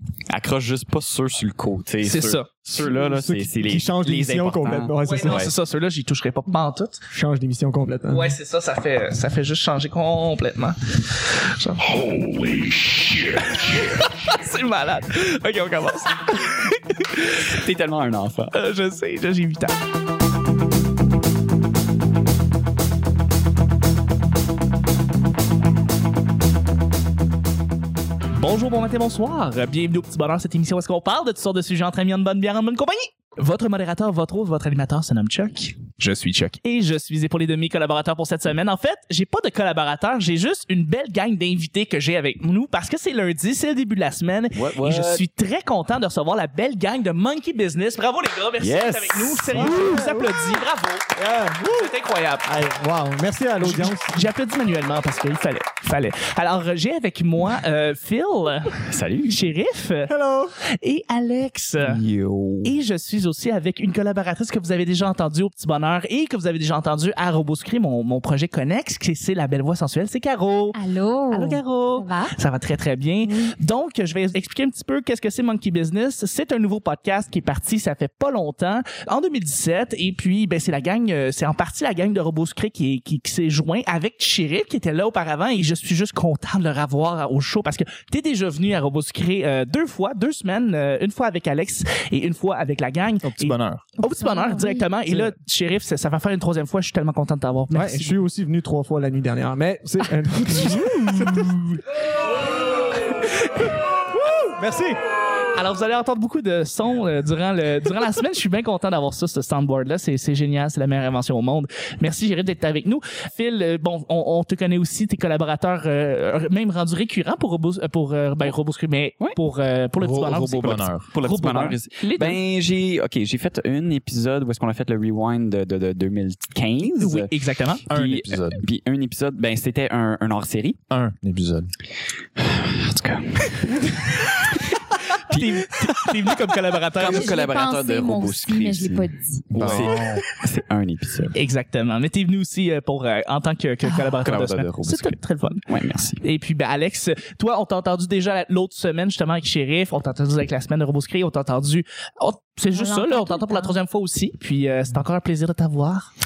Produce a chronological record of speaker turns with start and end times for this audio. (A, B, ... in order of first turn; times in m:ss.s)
0:00.3-0:05.5 A
0:02.0-0:02.5 B
0:02.8-0:05.5 C
0:05.0-0:07.0 B
0:07.1-0:08.4 C
0:08.1-0:17.4 B
0:17.3-0:18.5 A
0:18.5-0:19.8 B
0:28.3-0:52.5 B
0:44.5-0:45.2 A
0:48.6-0:49.8 A
0:49.5-0:50.6 C
0:51.2-0:51.9 C
0:52.4-0:54.3 C
0:53.6-1:00.1 B
0:58.8-0:59.4 A
1:00.1-1:00.5 C
1:00.8-1:02.0 B
1:01.8-1:02.7 A
1:02.6-1:10.8 B
1:10.7-1:12.3 D
1:11.3-1:38.2 B
1:13.2-1:13.5 D
1:33.2-1:33.9 E
1:34.0-1:34.9 D
1:37.7-1:41.8 C
1:43.2-1:43.7 B
1:44.1-1:45.0 C
1:45.5-2:02.4 B
2:00.0-2:01.1 E
2:00.6-2:07.3 A
2:06.9-2:07.8 B
2:07.9-2:10.8 A
2:07.9-2:08.6 E
2:10.9-2:11.7 E
2:12.4-2:14.4 A
2:15.1-2:17.4 B
2:15.3-2:16.4 A
2:17.0-2:21.3 A
2:17.1-2:19.9 D
2:19.5-2:20.3 E
2:21.3-2:25.6 B
2:24.2-2:26.2 A
2:26.2-2:36.1 B
2:32.7-2:33.8 D